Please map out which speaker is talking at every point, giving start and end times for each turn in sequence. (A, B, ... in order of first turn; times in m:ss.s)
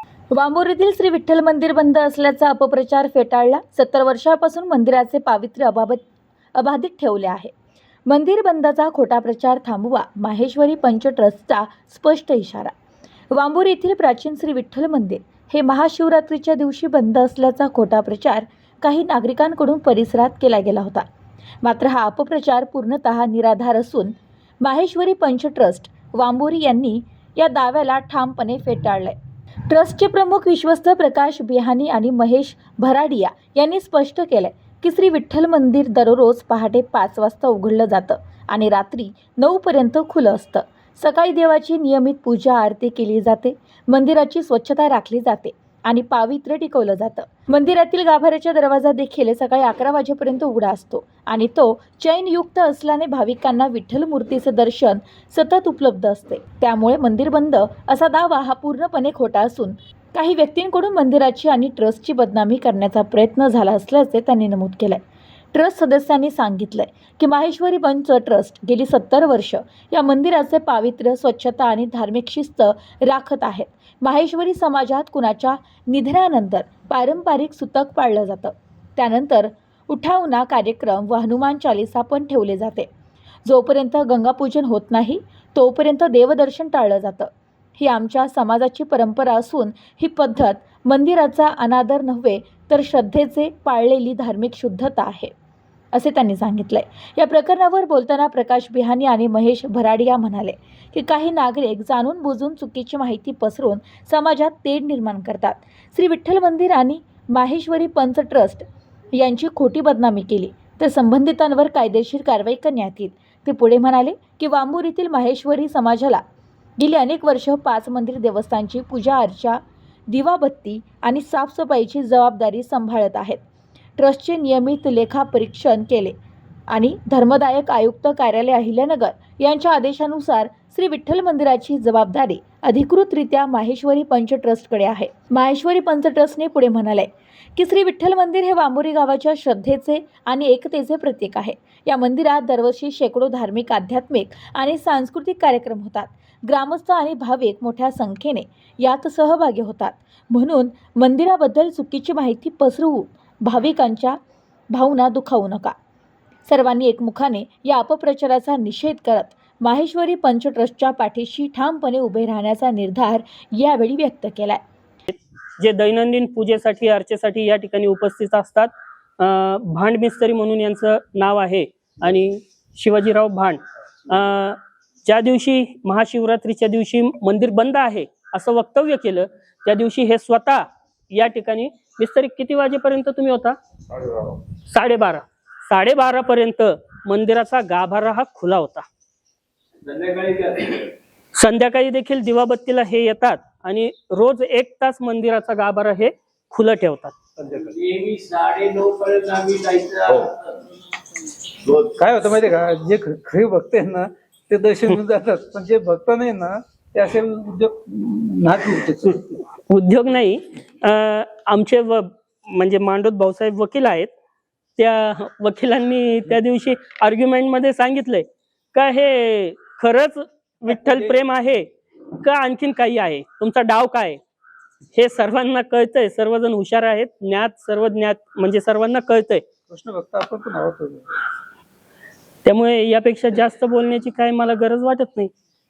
0:00.3-0:06.0 A
0:06.5-0:07.5 A
0:08.1-0:12.7 A
0:13.3-0:21.0 A
0:21.6-0:29.2 A
0:29.7-1:05.0 A
1:05.5-1:22.9 A
1:23.4-1:35.3 A
1:35.9-1:56.2 A
1:56.8-2:03.4 A
2:04.0-2:06.1 A
2:06.7-2:34.2 A
2:34.7-2:35.7 A
2:36.4-2:44.6 A
2:45.1-3:03.6 B
3:04.6-3:08.9 B
3:09.8-3:10.9 C
3:11.4-3:17.2 B
3:17.4-3:17.7 D
3:17.7-3:20.5 C
3:21.8-3:29.4 D
3:29.7-3:34.1 B
3:34.8-3:44.2 B
3:40.7-3:41.1 D
3:44.9-3:49.4 B
3:49.7-3:51.2 D
3:52.4-3:55.3 B